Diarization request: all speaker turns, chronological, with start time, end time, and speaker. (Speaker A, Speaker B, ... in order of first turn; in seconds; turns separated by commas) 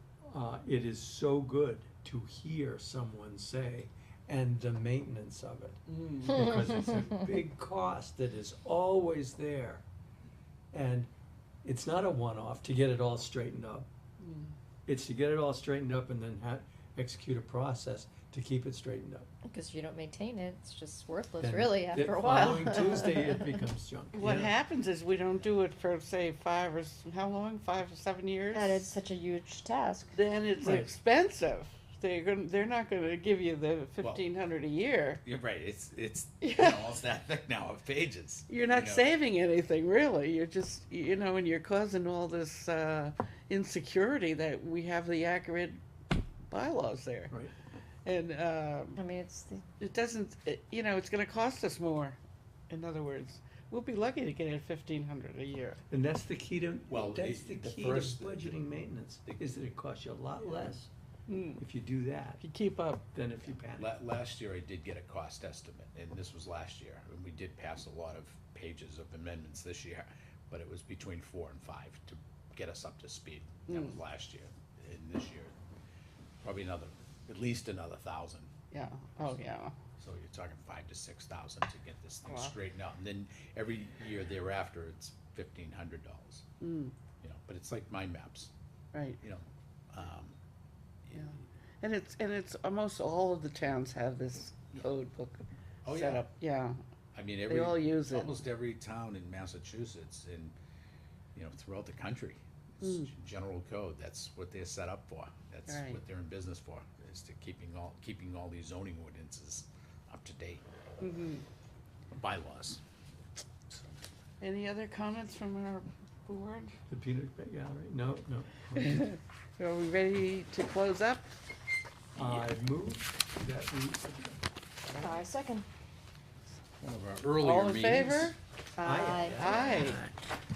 Speaker A: 0.3-9.8, Speaker B: 6.0-6.2, Speaker A: 10.7-11.1, Speaker A: 11.6-13.9, Speaker A: 14.9-19.3, Speaker C: 19.4-23.6, Speaker A: 21.4-24.5, Speaker D: 24.1-28.9, Speaker C: 28.5-30.1, Speaker D: 30.1-35.2, Speaker A: 30.6-30.9, Speaker B: 35.2-39.1, Speaker D: 36.4-36.9, Speaker D: 38.5-45.8, Speaker D: 46.5-47.3, Speaker D: 48.0-49.0, Speaker C: 49.0-49.6, Speaker D: 49.8-52.2, Speaker D: 52.7-55.8, Speaker A: 55.9-60.9, Speaker B: 56.9-58.6, Speaker B: 59.2-59.5, Speaker D: 61.3-61.6, Speaker A: 61.6-62.4, Speaker D: 62.4-63.0, Speaker A: 63.1-63.9, Speaker B: 63.8-75.5, Speaker D: 73.7-74.0, Speaker B: 76.4-78.5, Speaker D: 78.7-79.8, Speaker B: 80.0-86.4, Speaker D: 82.2-82.5, Speaker D: 86.6-87.0, Speaker B: 87.2-88.5, Speaker D: 88.9-89.2, Speaker B: 89.2-90.4, Speaker B: 91.0-91.4, Speaker D: 91.1-96.8, Speaker B: 95.8-96.2, Speaker B: 97.1-100.5, Speaker D: 97.5-98.3, Speaker B: 101.3-110.6, Speaker D: 102.8-103.1, Speaker D: 105.7-106.0, Speaker D: 111.0-111.4, Speaker B: 112.1-112.8, Speaker D: 114.4-116.7, Speaker A: 116.9-119.0, Speaker D: 118.8-121.3, Speaker B: 122.2-122.5, Speaker A: 122.2-124.4, Speaker C: 125.0-125.7, Speaker B: 126.8-128.3, Speaker D: 127.4-128.3, Speaker C: 128.8-129.4, Speaker A: 128.8-130.1, Speaker D: 129.2-130.1